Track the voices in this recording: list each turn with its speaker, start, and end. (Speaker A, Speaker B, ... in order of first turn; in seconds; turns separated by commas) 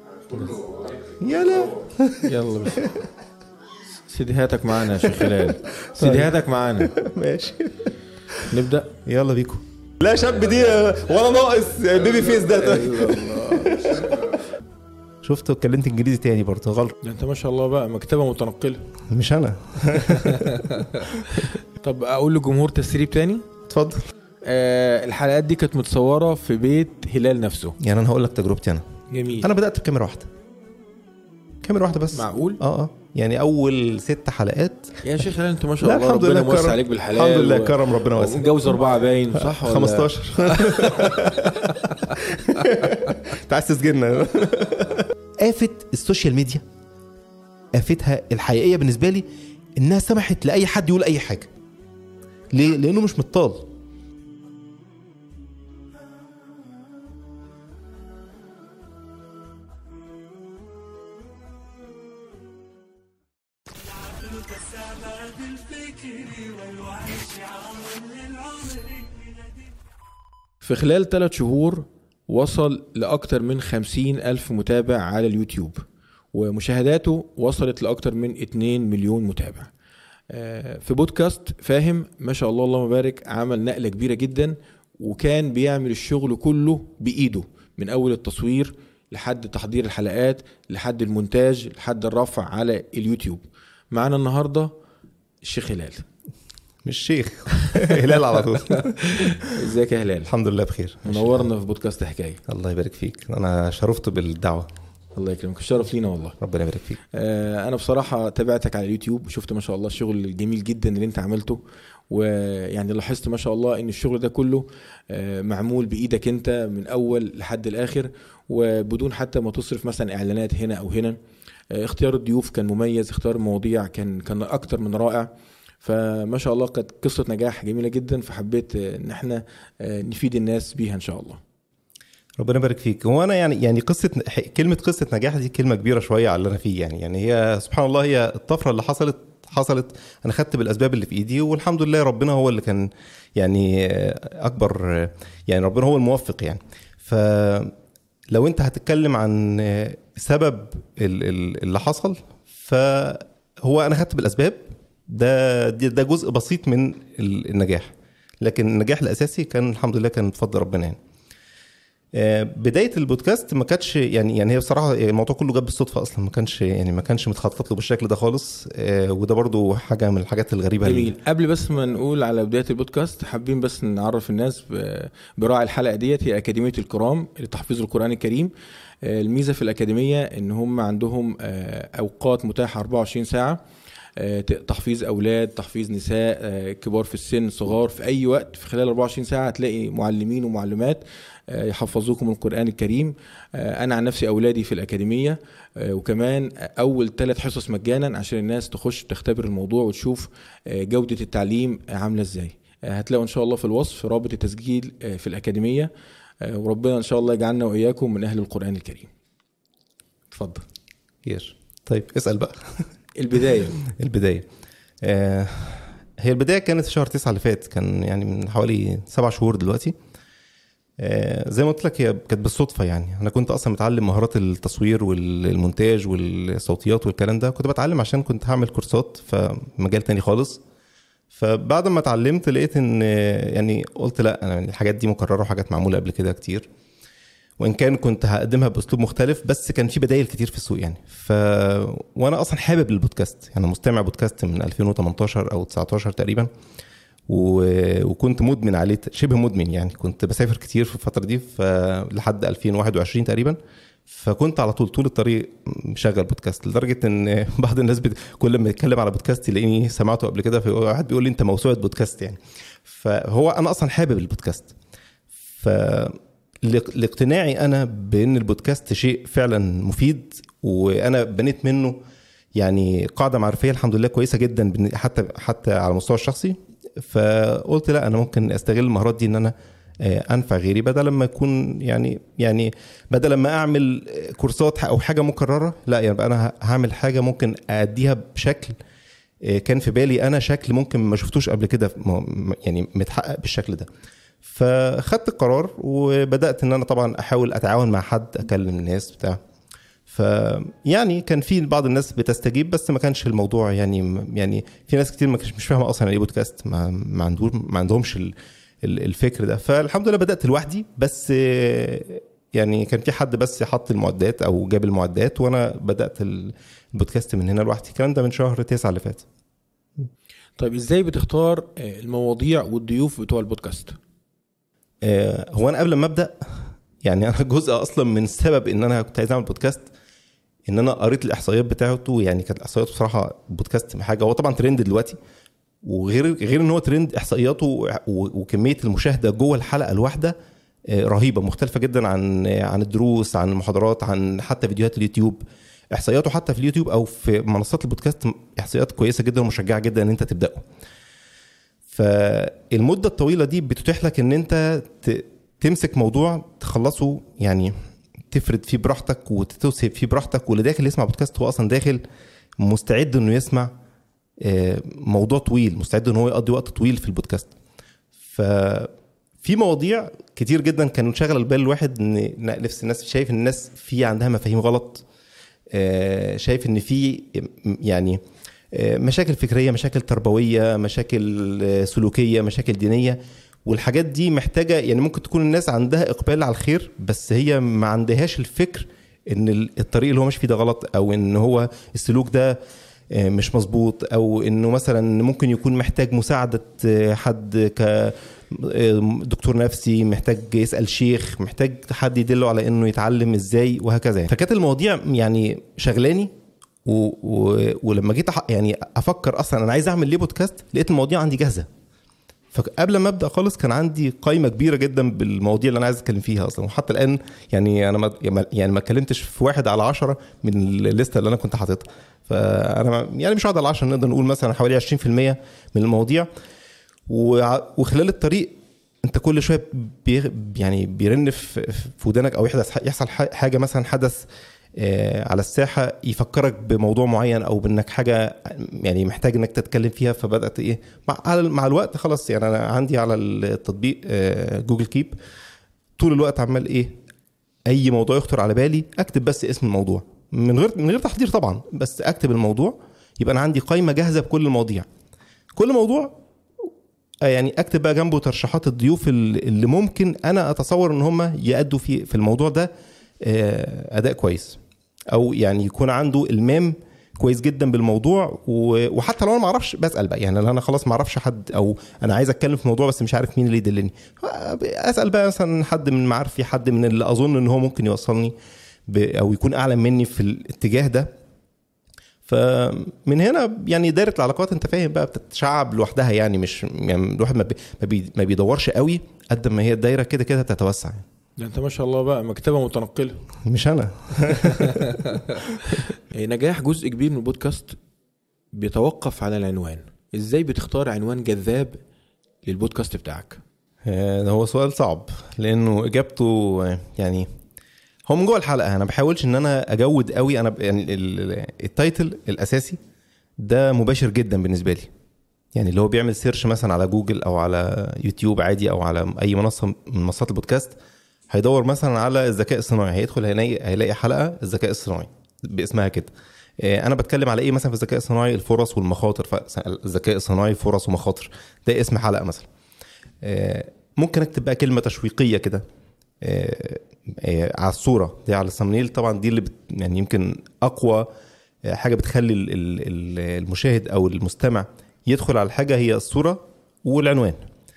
Speaker A: 0.3-0.7, Speaker B: 1.2-3.1, Speaker A: 2.2-2.9, Speaker A: 4.1-6.9, Speaker B: 5.0-6.3, Speaker B: 6.8-8.5, Speaker A: 8.5-8.9, Speaker B: 9.1-14.4, Speaker A: 12.2-14.4, Speaker B: 15.2-17.0, Speaker A: 17.0-18.9, Speaker B: 19.1-21.6, Speaker A: 19.9-23.4, Speaker B: 23.7-24.1, Speaker A: 24.4-27.8, Speaker B: 27.8-28.8, Speaker A: 29.1-29.5, Speaker B: 29.4-30.3, Speaker B: 31.6-35.0, Speaker A: 32.1-32.6, Speaker A: 35.0-41.4, Speaker B: 35.8-38.7, Speaker B: 39.3-46.6, Speaker A: 42.1-42.7, Speaker B: 47.7-49.2, Speaker B: 49.8-51.5, Speaker B: 52.5-53.7, Speaker A: 64.1-69.2, Speaker A: 70.6-79.7, Speaker A: 80.3-94.7, Speaker A: 95.4-96.1, Speaker B: 96.8-99.6, Speaker A: 97.6-100.3, Speaker B: 100.2-101.5, Speaker A: 101.0-102.4, Speaker B: 102.5-104.7, Speaker A: 105.2-106.4, Speaker B: 106.4-107.0, Speaker A: 107.1-121.2, Speaker A: 121.7-125.3, Speaker A: 125.8-131.4, Speaker B: 132.4-147.7, Speaker B: 148.3-161.0, Speaker B: 162.1-171.1, Speaker A: 170.8-183.6, Speaker A: 184.2-205.9, Speaker A: 206.4-209.1, Speaker A: 210.3-210.6, Speaker B: 211.2-212.9, Speaker A: 213.2-213.8, Speaker B: 213.8-214.5, Speaker B: 215.0-219.9, Speaker B: 221.0-230.6, Speaker B: 231.3-236.7, Speaker B: 237.6-246.5, Speaker B: 247.3-264.7, Speaker B: 265.6-272.0, Speaker B: 272.6-288.8, Speaker B: 289.4-293.9, Speaker B: 294.5-299.4, Speaker B: 300.1-319.2, Speaker A: 320.6-324.0, Speaker B: 325.0-329.8, Speaker B: 330.7-335.2, Speaker B: 335.8-340.4, Speaker B: 340.9-350.6, Speaker B: 351.9-357.7, Speaker B: 358.3-362.0, Speaker B: 362.6-363.7, Speaker B: 364.4-367.5, Speaker B: 368.3-368.9, Speaker B: 369.4-375.0, Speaker B: 375.7-378.2, Speaker B: 378.7-392.6, Speaker B: 393.1-406.3, Speaker B: 406.9-411.7, Speaker B: 412.5-426.3, Speaker B: 427.1-434.3, Speaker B: 434.8-445.2, Speaker B: 446.0-447.0, Speaker B: 447.7-454.9, Speaker B: 455.6-456.7, Speaker B: 457.2-462.7, Speaker B: 463.2-464.6, Speaker B: 465.1-478.3, Speaker B: 478.9-481.1, Speaker B: 482.3-491.1, Speaker A: 491.4-493.2, Speaker B: 493.5-495.8, Speaker A: 494.3-497.8, Speaker A: 498.5-501.8, Speaker A: 502.4-503.4, Speaker B: 503.9-507.3, Speaker B: 508.1-512.8, Speaker B: 513.4-514.9, Speaker B: 515.5-520.8, Speaker B: 521.3-532.5, Speaker B: 533.2-535.6, Speaker B: 536.2-541.1, Speaker B: 541.7-547.4